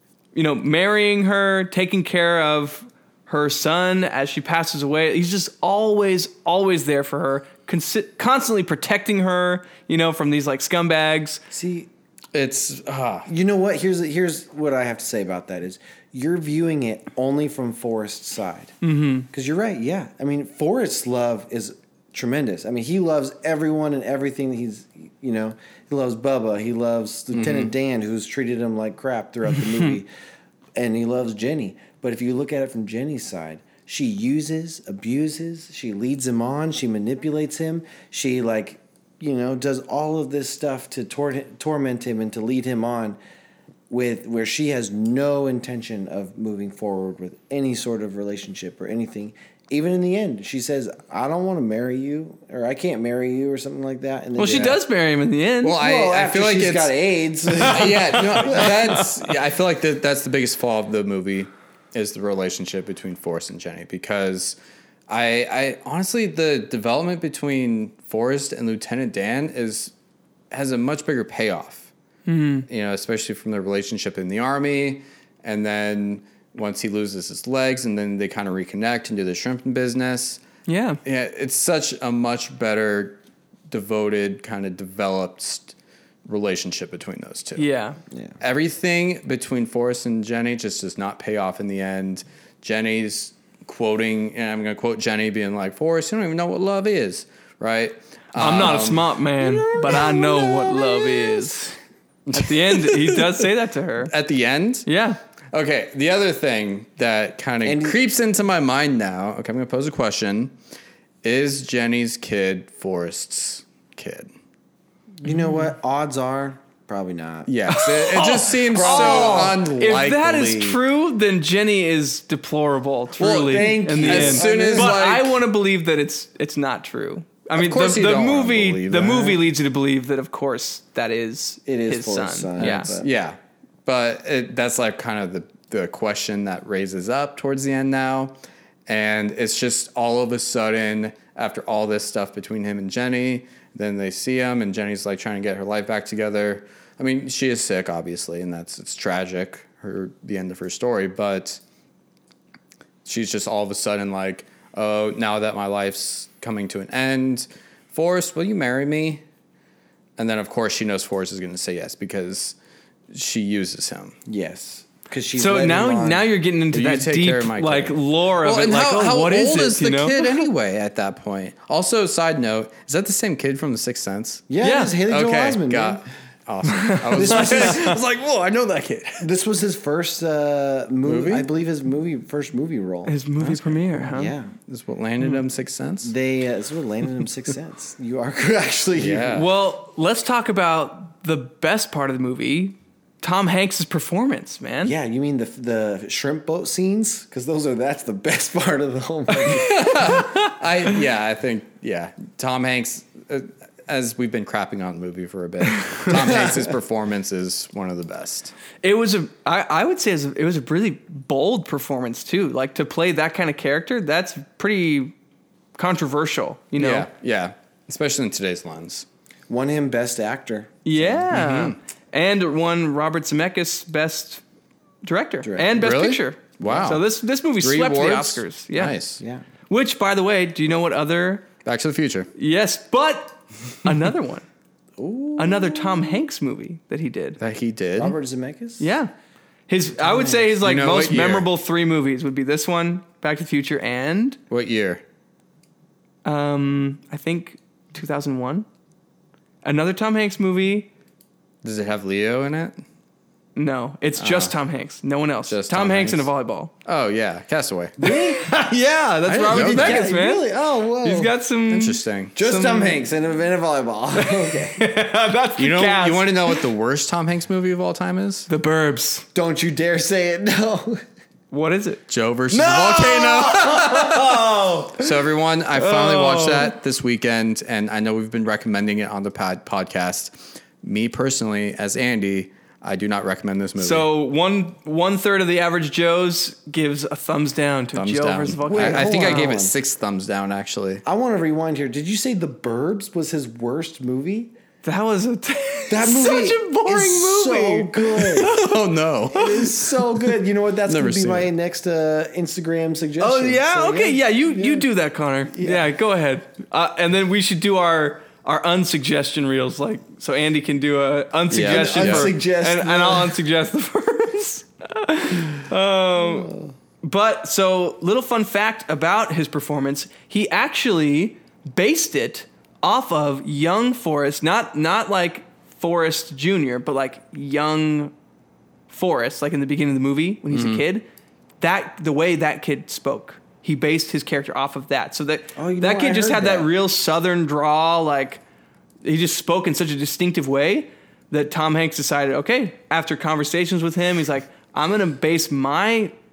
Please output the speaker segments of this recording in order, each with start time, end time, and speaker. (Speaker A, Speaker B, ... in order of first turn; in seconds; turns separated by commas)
Speaker A: 0.3-11.4, Speaker B: 11.5-11.9, Speaker C: 12.3-13.3, Speaker B: 13.2-18.8, Speaker A: 18.8-19.3, Speaker B: 19.3-30.1, Speaker C: 27.3-27.7, Speaker B: 30.8-43.2, Speaker B: 43.9-54.8, Speaker A: 54.4-55.8, Speaker C: 54.4-54.8, Speaker C: 55.6-57.0, Speaker B: 55.8-59.0, Speaker C: 57.5-64.6, Speaker A: 58.4-59.0, Speaker C: 65.1-69.9, Speaker C: 70.5-71.9, Speaker A: 72.2-72.7, Speaker C: 72.7-80.4, Speaker A: 80.7-81.0, Speaker C: 81.0-83.2, Speaker C: 83.7-87.7, Speaker A: 87.6-88.0, Speaker B: 88.1-88.4, Speaker C: 88.4-99.1, Speaker A: 98.3-101.8, Speaker C: 102.3-103.2, Speaker A: 102.3-104.1, Speaker C: 104.1-104.9, Speaker A: 104.8-105.2, Speaker C: 105.5-110.5, Speaker B: 107.6-108.0, Speaker C: 111.2-114.3, Speaker B: 115.2-117.5, Speaker C: 117.5-120.8, Speaker A: 117.7-132.9, Speaker B: 118.7-119.6, Speaker C: 123.2-125.4, Speaker B: 123.4-124.9, Speaker C: 127.5-129.4, Speaker B: 131.7-133.1, Speaker C: 132.6-138.3, Speaker C: 138.9-151.6, Speaker C: 153.0-159.2, Speaker C: 160.2-162.6, Speaker C: 163.1-164.2, Speaker B: 164.3-166.3, Speaker A: 165.4-170.2, Speaker C: 166.7-174.5, Speaker B: 174.5-176.0, Speaker A: 174.6-174.9, Speaker C: 175.1-179.2, Speaker A: 176.8-177.9, Speaker B: 177.1-178.0, Speaker B: 179.2-184.5, Speaker C: 181.0-181.4, Speaker A: 183.1-184.3, Speaker C: 184.7-186.1, Speaker B: 186.0-189.4, Speaker C: 188.9-189.5, Speaker A: 189.3-194.9, Speaker B: 194.8-200.2, Speaker C: 199.4-208.5, Speaker A: 200.0-200.3, Speaker A: 205.8-206.1, Speaker B: 206.1-206.7, Speaker A: 208.8-215.1, Speaker A: 215.8-217.1, Speaker C: 216.8-219.1, Speaker B: 219.5-221.3, Speaker A: 220.8-224.4, Speaker C: 221.3-221.8, Speaker A: 225.0-229.0, Speaker B: 225.4-225.8, Speaker C: 225.8-229.2, Speaker B: 229.2-229.4, Speaker A: 229.7-231.5, Speaker C: 231.6-232.3, Speaker A: 232.3-234.4, Speaker B: 235.0-236.2, Speaker A: 235.4-237.4, Speaker C: 237.4-238.1, Speaker B: 238.0-238.9, Speaker A: 238.8-239.1, Speaker A: 239.7-244.4, Speaker B: 240.0-240.4, Speaker C: 240.6-241.5, Speaker C: 244.5-245.0, Speaker A: 246.2-248.7, Speaker A: 249.6-250.9, Speaker C: 251.6-252.8, Speaker A: 253.5-256.7, Speaker C: 254.2-254.5, Speaker C: 255.5-256.3, Speaker C: 256.8-258.0, Speaker B: 258.0-258.5, Speaker A: 258.0-260.5, Speaker C: 259.3-260.0, Speaker B: 259.5-261.3, Speaker A: 261.0-263.0, Speaker C: 261.7-262.4, Speaker B: 262.3-264.8, Speaker A: 264.1-266.6, Speaker C: 265.6-268.5, Speaker A: 268.5-269.2, Speaker B: 269.3-271.0, Speaker A: 271.5-275.1, Speaker C: 272.1-284.1, Speaker A: 275.8-276.7, Speaker A: 283.8-289.5, Speaker C: 287.9-291.0, Speaker B: 288.7-289.8, Speaker B: 291.0-294.5, Speaker A: 294.8-298.8, Speaker B: 295.9-298.5, Speaker C: 298.4-300.0, Speaker B: 299.3-304.9, Speaker C: 300.9-301.5, Speaker A: 303.2-328.1, Speaker B: 305.5-305.8, Speaker C: 311.5-312.3, Speaker B: 311.7-313.4, Speaker B: 316.1-316.7, Speaker A: 328.9-331.1, Speaker C: 330.5-330.8, Speaker A: 331.6-338.4, Speaker B: 335.6-336.7, Speaker A: 339.0-346.1